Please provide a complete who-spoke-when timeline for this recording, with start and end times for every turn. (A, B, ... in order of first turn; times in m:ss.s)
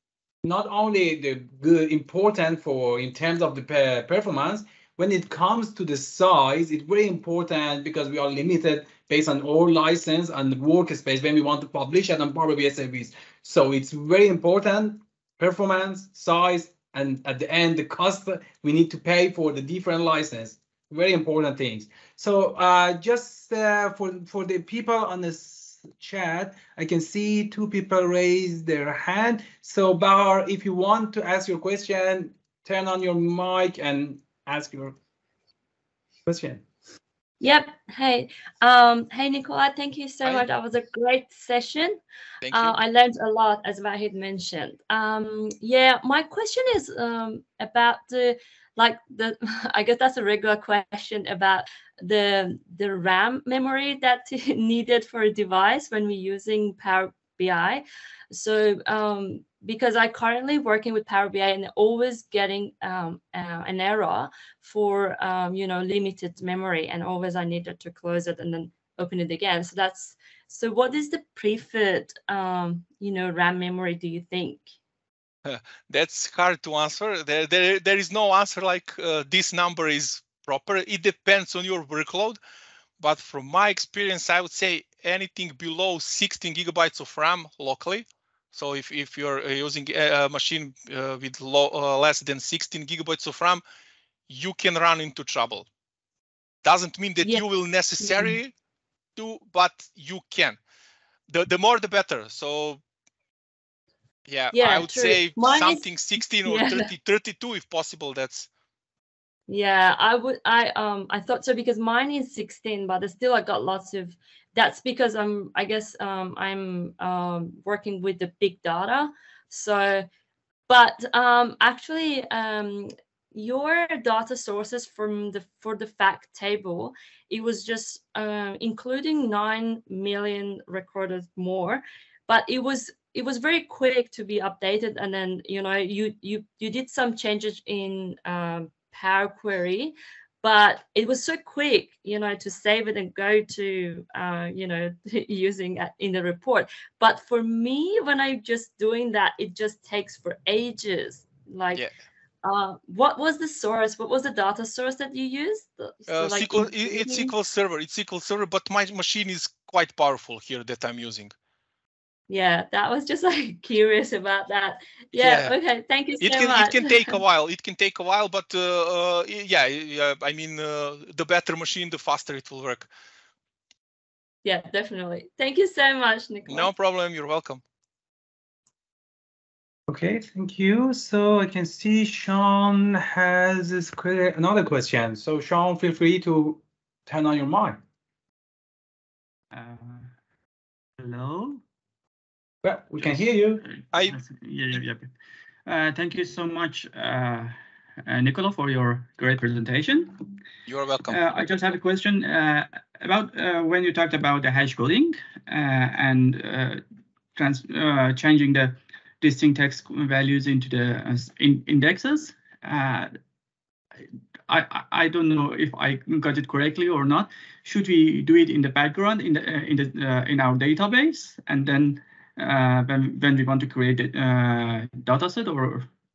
0:00.4-0:35.0 A
0:36.2-0:36.6 A
0:37.4-1:14.7 B
0:42.4-0:42.7 C
1:15.4-1:22.4 C
1:23.0-1:33.6 C
1:34.3-1:35.6 C
1:36.6-1:38.5 C
1:38.0-1:38.4 B
1:39.2-1:40.6 C
1:41.3-1:42.8 C
1:44.3-1:48.5 C
1:44.5-1:45.9 B
1:46.4-1:46.9 B
1:49.5-2:00.1 B
2:00.7-2:31.8 B
2:32.4-2:37.3 B
2:36.1-2:41.3 C
2:42.3-2:47.2 B
2:45.2-2:45.5 C
2:46.2-2:52.9 C
2:54.4-2:56.7 B
2:56.5-2:57.6 C
2:59.9-3:07.8 A
3:09.5-3:10.1 D
3:11.0-3:11.6 D
3:12.6-3:13.6 A
3:13.0-3:15.1 D
3:13.9-3:14.2 C
3:15.6-3:20.2 D
3:20.6-3:21.2 C
3:21.1-3:26.8 D
3:27.3-3:33.1 D
3:34.5-3:45.9 D